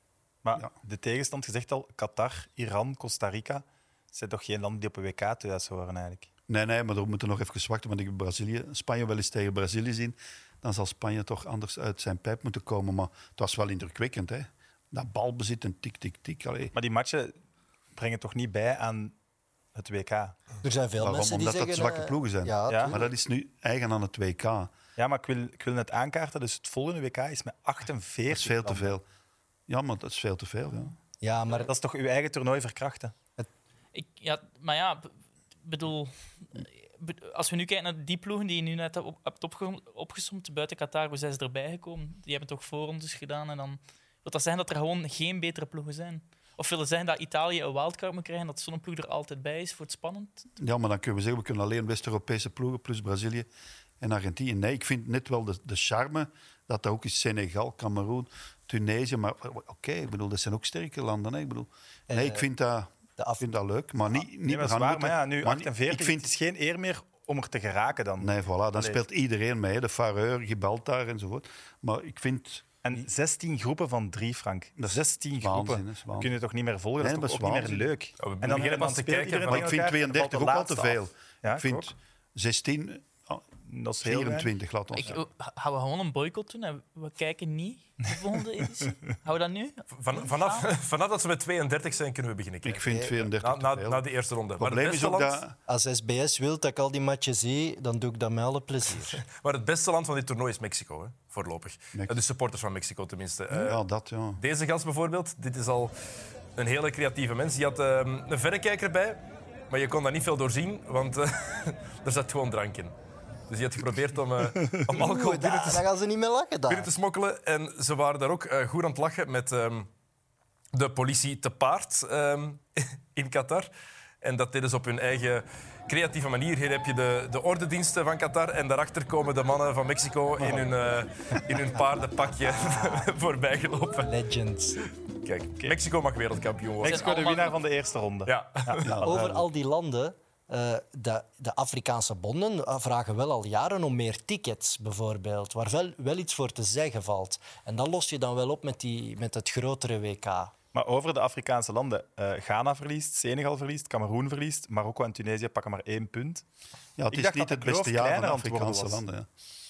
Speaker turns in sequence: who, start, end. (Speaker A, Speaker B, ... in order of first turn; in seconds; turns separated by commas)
Speaker A: 0.4-6.3, Speaker B: 6.5-16.7, Speaker A: 16.7-17.4, Speaker A: 17.9-19.1, Speaker A: 19.8-20.4, Speaker C: 20.6-23.1, Speaker B: 21.0-24.7, Speaker A: 22.7-23.0, Speaker A: 25.0-29.0, Speaker B: 28.3-29.0, Speaker B: 29.7-30.9, Speaker C: 31.2-31.7, Speaker A: 31.5-33.1, Speaker D: 33.9-35.1, Speaker D: 35.6-50.5, Speaker B: 50.6-53.5, Speaker B: 54.0-66.3, Speaker C: 62.1-62.5, Speaker C: 63.2-63.5, Speaker A: 64.4-69.0, Speaker B: 68.2-72.7, Speaker A: 72.8-81.9, Speaker B: 74.8-76.3, Speaker B: 77.0-77.9, Speaker E: 78.2-79.8, Speaker B: 79.5-83.5, Speaker A: 83.7-84.5, Speaker B: 84.0-85.2, Speaker D: 85.0-90.7, Speaker E: 89.9-95.5, Speaker B: 92.6-94.0, Speaker C: 92.9-93.2, Speaker B: 94.6-95.5, Speaker C: 95.7-99.2, Speaker E: 99.1-103.8, Speaker B: 103.5-104.4, Speaker E: 104.4-105.9, Speaker E: 106.6-113.0, Speaker E: 113.5-115.9, Speaker C: 114.9-116.9, Speaker E: 116.7-119.9, Speaker E: 120.7-123.7, Speaker E: 124.2-134.1, Speaker A: 130.4-130.8, Speaker C: 132.7-133.1, Speaker C: 134.0-134.8, Speaker E: 134.8-137.3, Speaker A: 136.8-139.4, Speaker D: 136.9-137.6, Speaker E: 138.3-139.0, Speaker B: 138.8-139.4, Speaker C: 139.0-150.5, Speaker A: 150.7-156.4, Speaker B: 157.0-159.3, Speaker A: 157.1-159.0